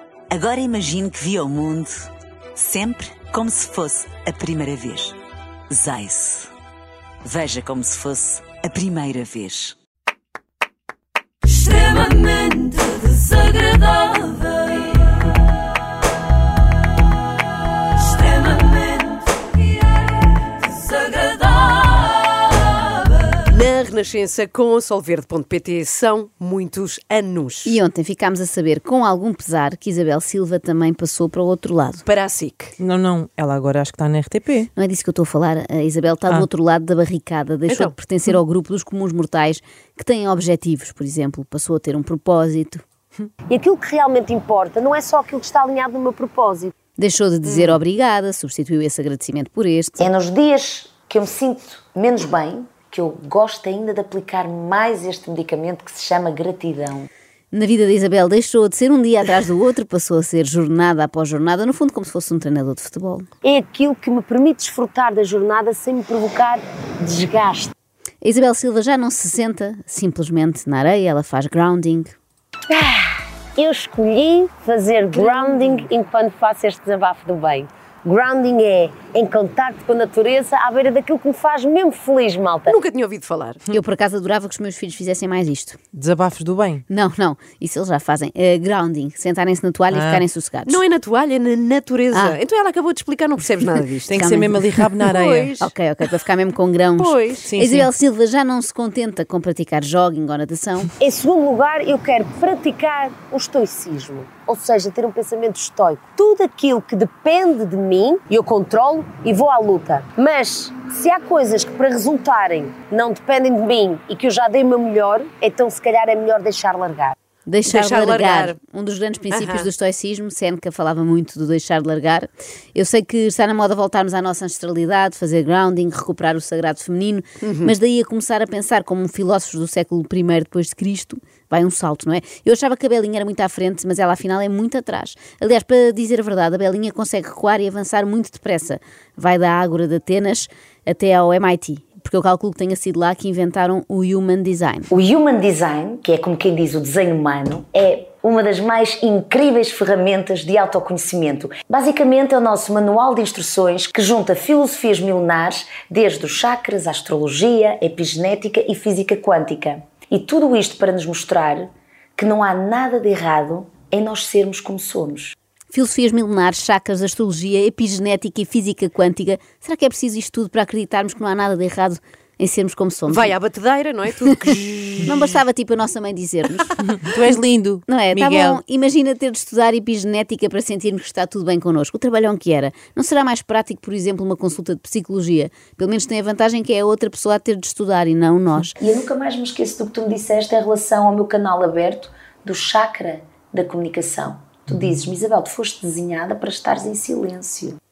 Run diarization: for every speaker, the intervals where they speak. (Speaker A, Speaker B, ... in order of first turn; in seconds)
Speaker A: 0.3-5.2, 5.7-6.5, 7.2-9.8, 12.1-12.6
Speaker B: 23.4-27.8, 32.0-32.7, 37.7-37.9, 47.5-47.8, 75.1-75.9, 82.7-83.6, 90.7-95.7, 97.0-97.5, 117.7-118.5, 119.3-119.7, 127.4-127.7, 173.1-175.3
Speaker C: 27.6-32.0, 34.8-42.8, 47.0-50.1, 57.5-63.3, 68.2-72.1, 83.7-85.8, 86.9-90.8, 92.1-92.4, 94.1-94.6, 95.6-100.9, 117.5-144.9, 165.7-173.3, 175.0-176.8, 177.9-188.8
Speaker D: 32.8-34.7, 85.9-86.8, 89.9-90.2, 94.0-95.5, 97.4-97.9, 177.0-178.6
Speaker E: 43.5-46.7, 63.4-67.7, 73.5-82.7, 101.0-117.1
Speaker F: 50.0-57.1, 72.7-73.0, 75.2-75.5, 144.9-165.3, 188.8-197.8